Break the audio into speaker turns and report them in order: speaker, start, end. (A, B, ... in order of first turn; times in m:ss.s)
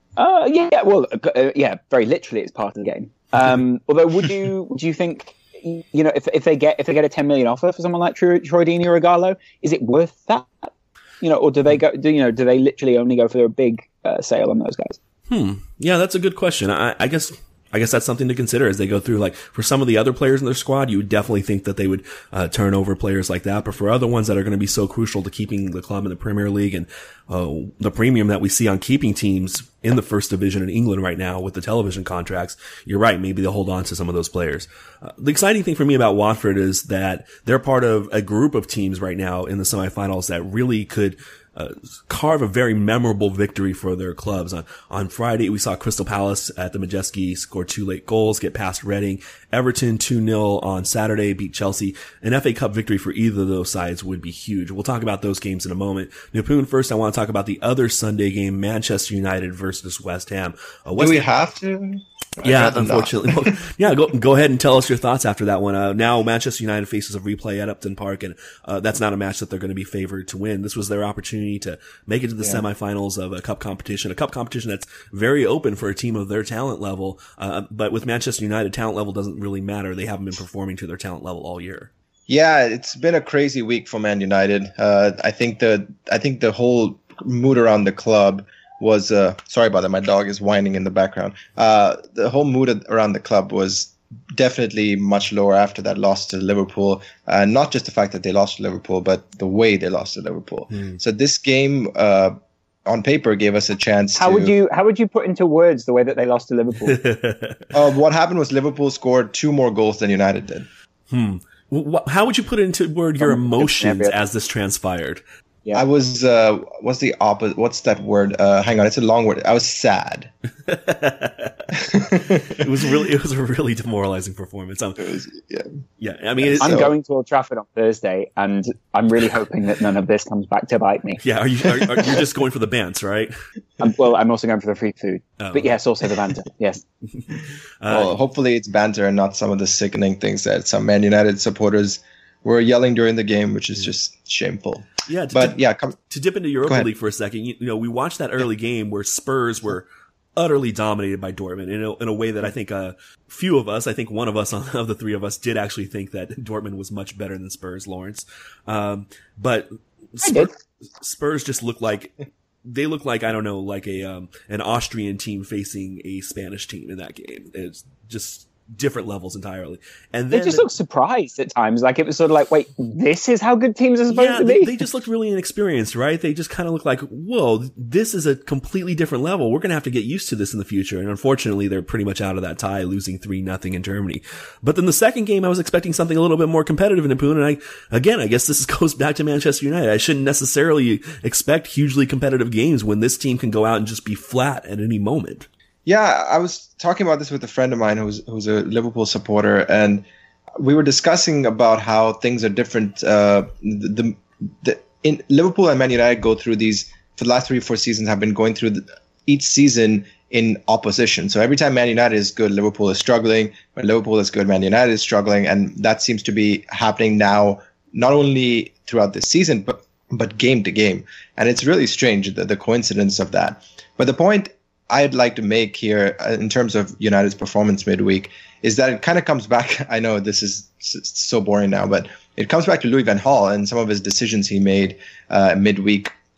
0:00.2-0:15.0 A
0:15.3-1:01.3 B
1:01.0-1:03.5 C
1:02.4-1:21.9 B
1:22.3-1:44.5 C
1:44.2-1:47.0 A
1:46.8-1:47.6 B
1:47.7-1:50.7 C
1:51.1-1:55.2 B
1:53.2-1:54.2 A
1:55.7-2:00.3 C
2:00.7-2:01.7 B
2:01.8-2:02.6 C
2:02.4-2:05.1 B
2:05.0-2:05.7 C
2:06.0-2:06.9 B
2:06.4-2:06.9 C
2:06.6-2:11.2 A
2:11.2-2:13.3 B
2:13.8-2:16.8 A
2:15.4-2:15.7 B
2:17.1-2:18.2 B
2:17.9-2:26.0 C
2:25.1-2:25.6 B
2:26.1-2:42.1 B
2:40.2-2:40.5 A
2:42.6-2:50.7 B
2:50.3-2:54.8 A
2:54.1-3:15.5 B
3:15.8-3:20.0 C
3:20.6-3:56.1 C